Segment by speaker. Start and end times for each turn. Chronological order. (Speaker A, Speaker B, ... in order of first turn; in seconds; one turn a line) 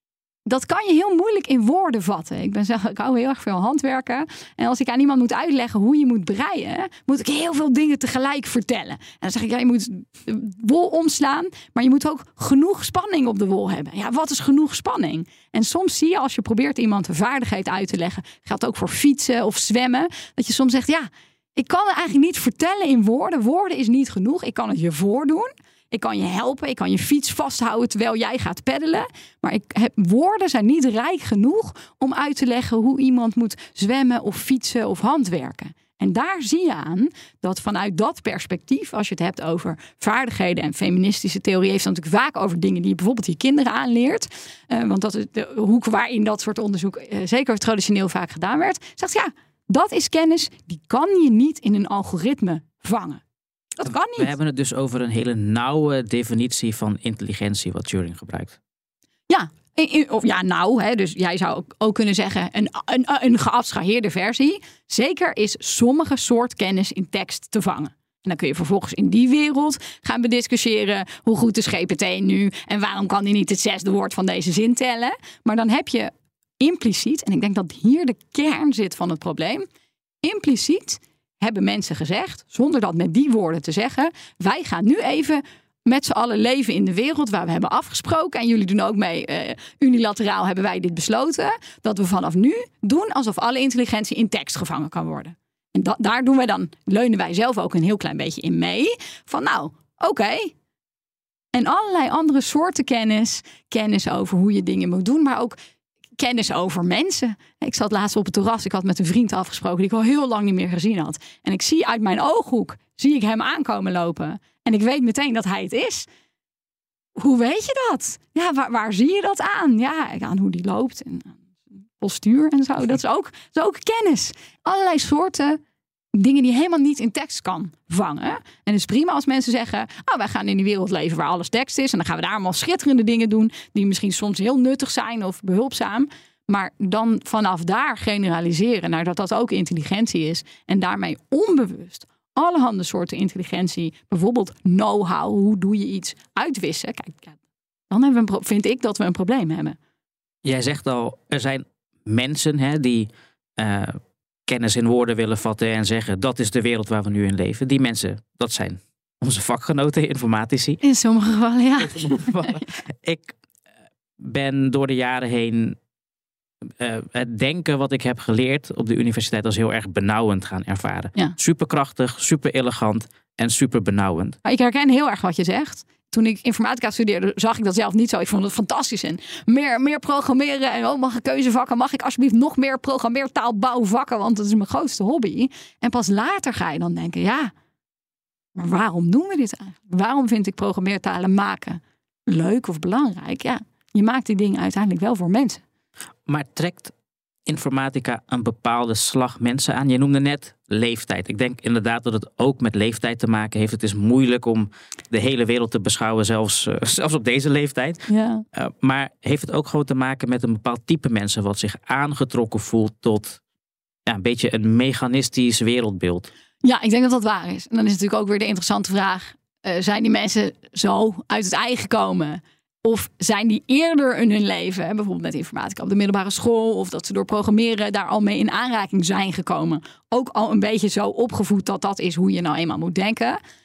Speaker A: 0.5-53.2
Speaker A: 53.8-54.3
Speaker B: 53.9-58.6
Speaker A: 59.3-79.7
Speaker A: 80.2-100.5
Speaker A: 101.5-105.5
Speaker A: 106.2-116.1
Speaker A: 117.2-121.4
Speaker A: 122.0-125.6
Speaker A: 126.1-147.4
Speaker A: 147.9-149.8
Speaker B: 150.4-160.8
Speaker A: 160.8-162.5
Speaker B: 162.0-163.3
Speaker B: 164.2-165.8
Speaker B: 166.8-174.4
Speaker A: 174.4-187.5
Speaker A: 188.6-195.6
Speaker B: 196.2-196.9
Speaker B: 197.4-213.4
Speaker A: 208.1-208.4
Speaker B: 214.1-216.3
Speaker A: 216.6-233.4